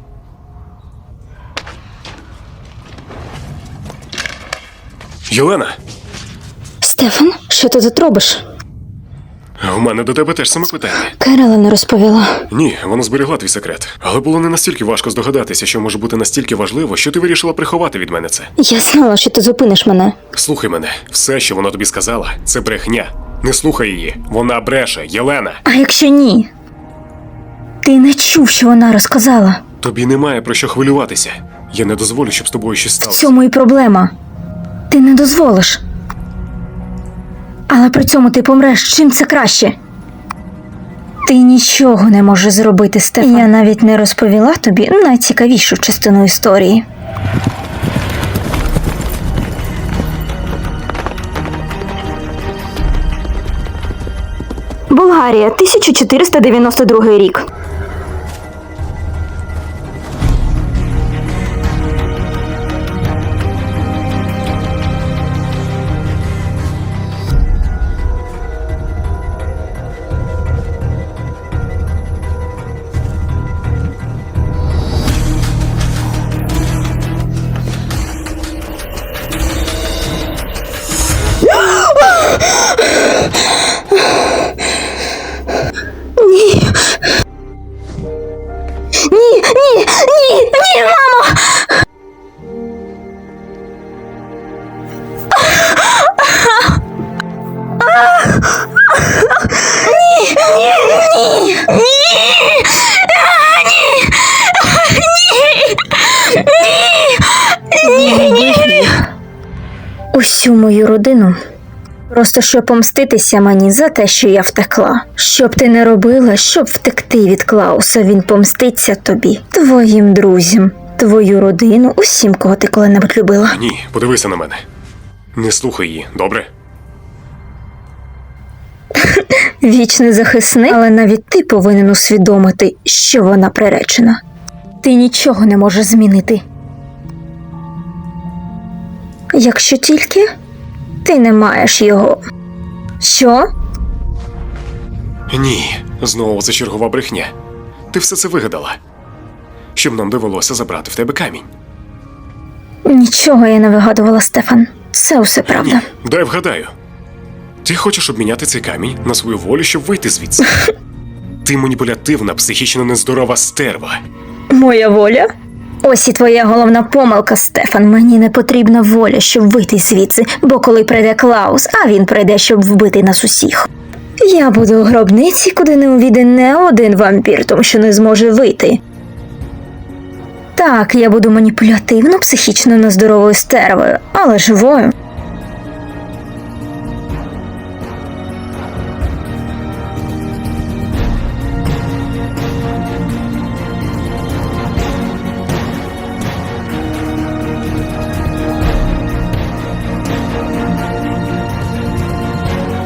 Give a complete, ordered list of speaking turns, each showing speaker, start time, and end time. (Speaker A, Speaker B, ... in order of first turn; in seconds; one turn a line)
Speaker A: 5.3-5.8
Speaker B: 6.8-8.4
Speaker A: 9.6-11.2
Speaker B: 11.2-12.4
Speaker A: 12.5-18.5
Speaker B: 18.6-20.2
Speaker A: 20.3-25.6
Speaker B: 25.7-26.5
Speaker B: 27.8-29.6
Speaker A: 29.8-33.3
Speaker B: 33.0-34.1
Speaker B: 34.9-35.8
Speaker B: 37.7-39.8
Speaker B: 41.2-46.9
Speaker B: 54.9-57.5
Speaker B: 81.7-82.5
Speaker B: 86.2-86.8
Speaker B: 89.1-91.7
Speaker B: 97.8-98.4
Speaker B: 99.5-109.1
Speaker B: 110.1-111.4
Speaker B: 112.1-123.6
Speaker A: 123.5-124.6
Speaker A: 125.3-126.5
Speaker B: 129.1-134.2
Speaker B: 134.8-136.4
Speaker B: 139.3-140.3
Speaker B: 141.0-142.2
Speaker B: 143.0-143.5
Speaker A: 145.3-147.3
Speaker A: 147.9-148.8
Speaker A: 149.8-151.5
Speaker B: 152.8-155.9
Speaker A: 155.4-156.7
Speaker A: 157.6-160.5
Speaker A: 161.4-164.0
Speaker B: 164.5-165.3
Speaker B: 165.8-173.7
Speaker B: 174.2-178.8
Speaker B: 180.6-184.9